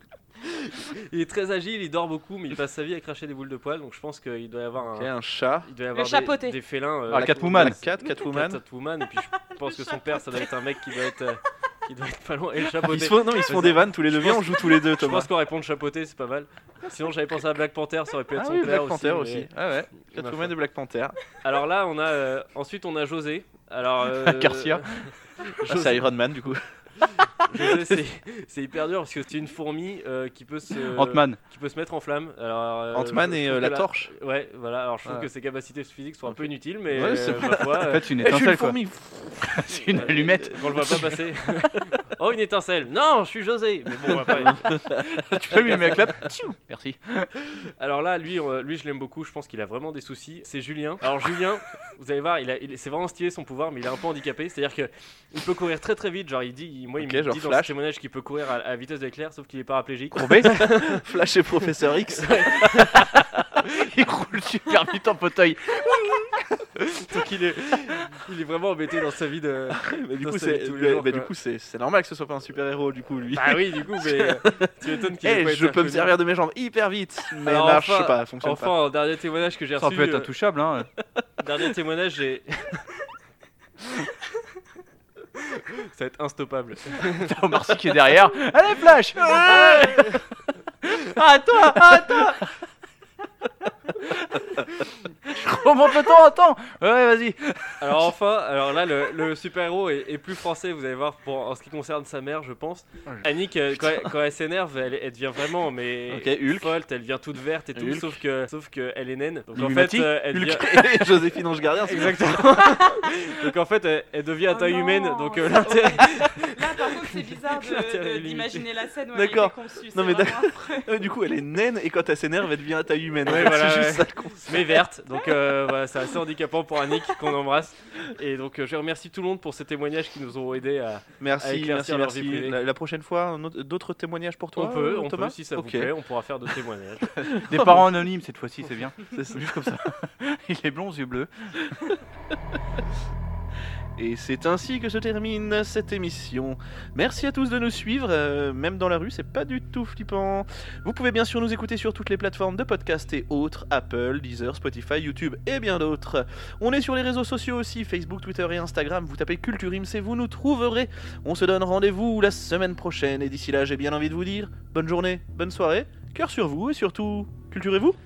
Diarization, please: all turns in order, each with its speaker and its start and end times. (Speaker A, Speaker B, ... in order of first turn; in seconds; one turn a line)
Speaker A: 0.4-5.1
Speaker B: 4.9-5.7
Speaker A: 5.6-19.5
Speaker C: 5.9-6.6
Speaker D: 7.1-7.8
Speaker B: 7.1-8.6
Speaker C: 9.4-10.5
Speaker B: 12.8-15.3
Speaker B: 18.3-21.2
Speaker A: 20.0-20.5
Speaker A: 21.4-26.0
Speaker D: 24.1-25.1
Speaker B: 25.6-26.6
Speaker A: 27.0-38.1
Speaker D: 30.9-31.4
Speaker B: 32.9-34.1
Speaker B: 36.9-39.9
Speaker D: 37.8-41.2
Speaker A: 39.9-44.7
Speaker D: 44.9-47.3
Speaker A: 47.5-61.0
Speaker B: 57.0-57.7
Speaker D: 60.1-60.5
Speaker B: 60.6-62.9
Speaker A: 61.6-63.2
Speaker D: 63.7-67.0
Speaker A: 67.0-71.3
Speaker B: 69.9-74.7
Speaker A: 73.3-76.1
Speaker B: 75.2-78.7
Speaker A: 77.4-80.3
Speaker D: 79.8-80.9
Speaker A: 81.4-82.8
Speaker A: 85.7-87.3
Speaker D: 87.2-90.2
Speaker A: 89.4-90.2
Speaker D: 90.8-92.5
Speaker D: 94.1-94.6
Speaker D: 95.2-98.1
Speaker A: 97.8-111.0
Speaker B: 106.1-106.7
Speaker B: 107.8-108.2
Speaker D: 109.5-110.6
Speaker B: 110.3-112.9
Speaker A: 111.8-118.7
Speaker C: 114.5-120.9
Speaker B: 119.1-124.8
Speaker A: 123.2-132.6
Speaker B: 131.2-135.9
Speaker A: 134.6-137.2
Speaker B: 137.2-137.8
Speaker D: 137.5-141.8
Speaker B: 139.1-139.8
Speaker B: 144.0-168.0